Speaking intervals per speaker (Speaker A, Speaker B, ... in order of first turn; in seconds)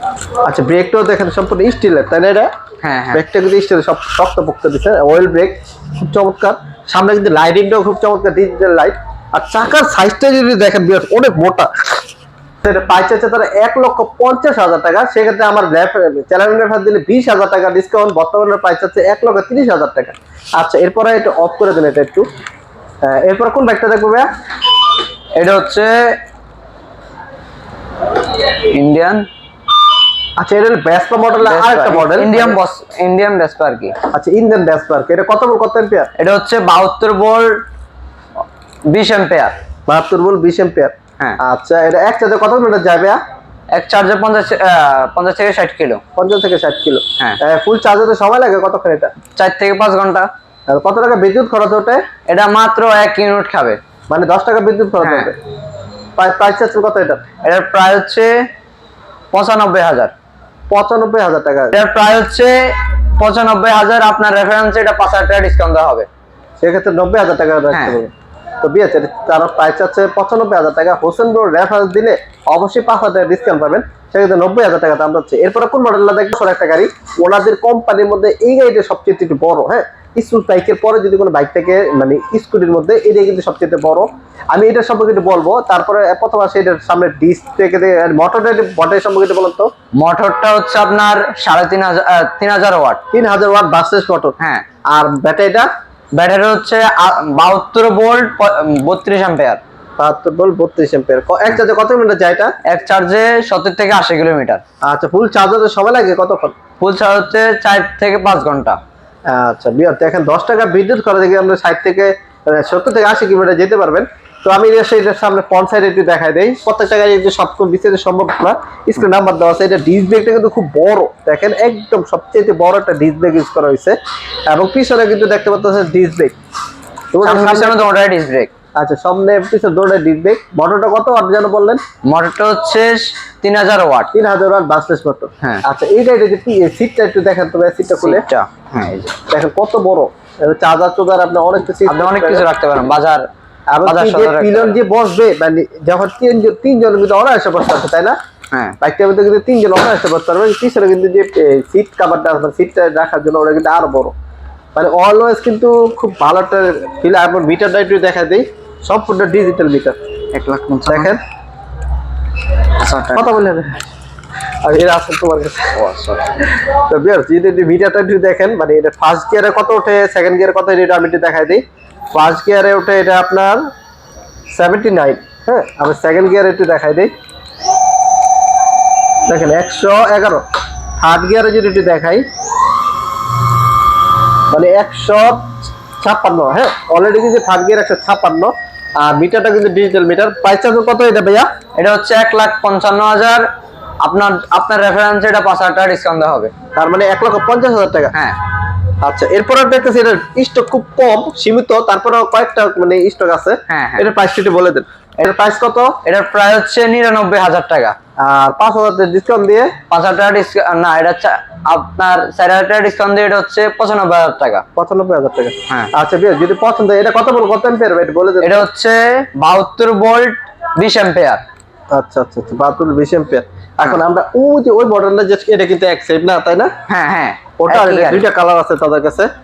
Speaker A: 0.4-2.5, 3.1-12.0, 12.6-22.3, 23.0-24.3, 30.4-32.6, 34.1-36.1, 39.9-43.2, 46.2-49.1, 50.7-52.0, 54.1-55.4, 56.2-57.2, 60.7-61.8, 66.6-89.7, 93.1-94.4, 94.9-95.7, 100.0-102.5, 104.8-106.5, 109.3-124.0, 124.5-126.3, 127.1-127.8, 128.8-131.8, 134.1-138.2, 139.3-142.5, 143.7-148.2, 148.8-154.2, 154.8-160.0, 160.9-161.2, 163.1-163.9, 164.6-165.8, 166.6-173.6, 174.5-177.1, 179.3-180.4, 181.0-182.2, 184.5-191.5, 196.8-198.1, 199.0-206.0, 208.2-209.8, 214.8-218.7, 221.9-226.7, 227.6-229.3
Speaker B: 2.8-3.2, 25.4-26.2, 28.4-29.3, 31.4-34.0, 36.2-37.6, 38.9-39.6, 43.7-46.0, 49.4-50.3, 52.3-53.8, 55.0-55.3, 57.4-58.5, 59.3-60.1, 61.7-66.1, 67.7-68.0, 90.0-93.0, 94.4-94.7, 96.2-99.6, 102.7-104.6, 106.8-108.8, 127.2-128.5, 132.1-134.1, 138.0-139.2, 141.8-143.3, 143.8-144.8, 148.5-148.8, 160.3-161.2, 162.8-163.3, 165.7-166.3, 191.8-193.5, 194.0-196.5, 203.7-204.1, 206.0-208.0, 209.9-214.6, 218.4-221.4, 226.9-228.3